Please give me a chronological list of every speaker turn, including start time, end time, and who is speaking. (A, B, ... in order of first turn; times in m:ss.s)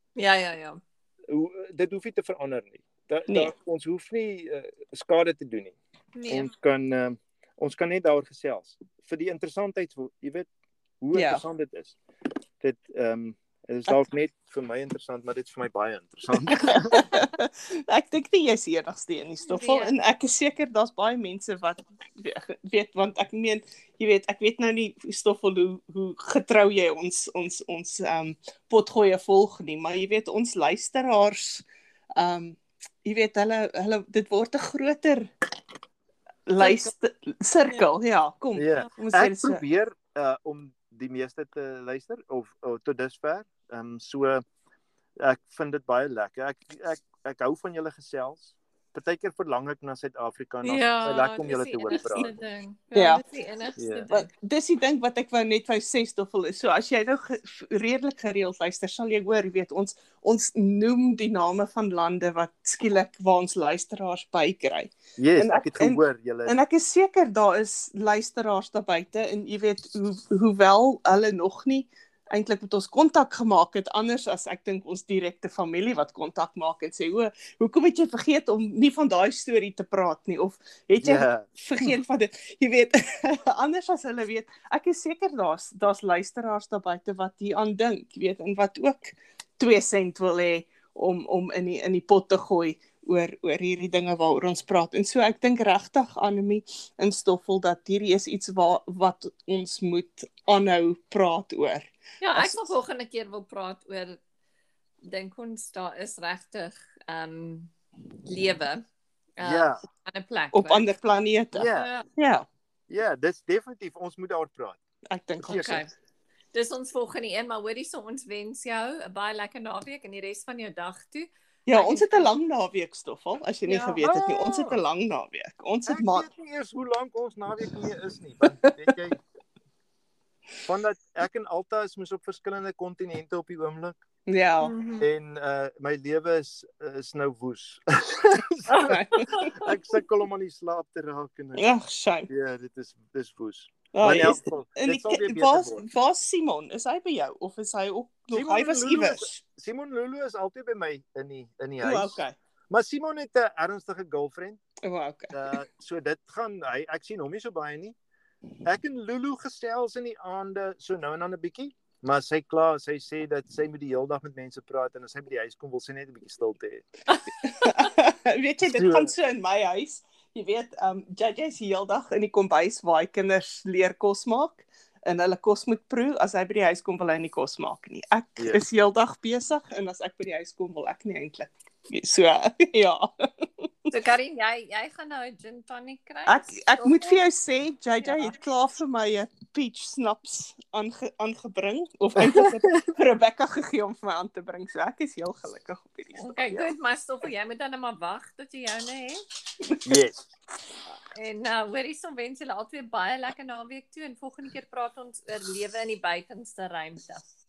0:00.2-0:00.8 A
0:01.3-0:05.8 B
0:03.3-0:03.5 C
0:06.1-0:06.5 A
0:06.3-0:10.5 B
0:11.0-0:12.0 B
0:11.1-0:11.4 C
0:12.6-0:17.2 B
0:16.5-0:31.6 C
0:19.4-0:19.9 A
0:32.2-0:35.3 C
0:36.5-0:39.6 C
0:38.5-0:44.4 B
0:45.2-0:52.3 B
0:50.6-0:54.3 A
0:52.9-0:53.2 C
0:53.8-0:54.1 B
0:54.1-1:42.6 C
1:05.2-1:06.5 B
1:21.0-1:21.9 B
1:42.2-1:44.2 A
1:45.0-1:47.7 A
1:48.2-1:48.8 A
1:49.4-1:50.9 A
1:49.4-1:49.8 B
1:50.5-1:52.5 C
1:51.5-1:51.9 B
1:51.7-1:52.0 A
1:52.9-1:54.8 B
1:55.1-1:55.8 C
1:55.4-1:55.8 B
1:55.5-1:55.9 A
1:56.5-2:02.3 A
2:01.6-2:06.3 C
2:03.7-2:04.8 B
2:05.8-2:09.2 B
2:10.6-2:14.0 B
2:14.3-2:14.7 C
2:14.6-2:15.1 A
2:15.0-2:21.7 B
2:18.7-2:19.5 C
2:19.2-2:19.7 A
2:21.6-2:22.3 C
2:22.3-2:25.8 B
2:23.9-2:29.4 C
2:28.3-2:34.6 B
2:31.8-2:32.3 C
2:34.8-2:35.5 C
2:35.3-2:38.0 B
2:38.6-2:46.8 B
2:47.1-2:47.9 A
2:47.4-3:03.9 C
2:48.7-2:49.1 B
3:03.9-3:07.2 A
3:06.3-3:16.7 C
3:08.0-3:08.3 A
3:16.2-3:19.2 A
3:19.6-3:20.0 C
3:19.8-3:20.3 B
3:21.1-3:27.2 A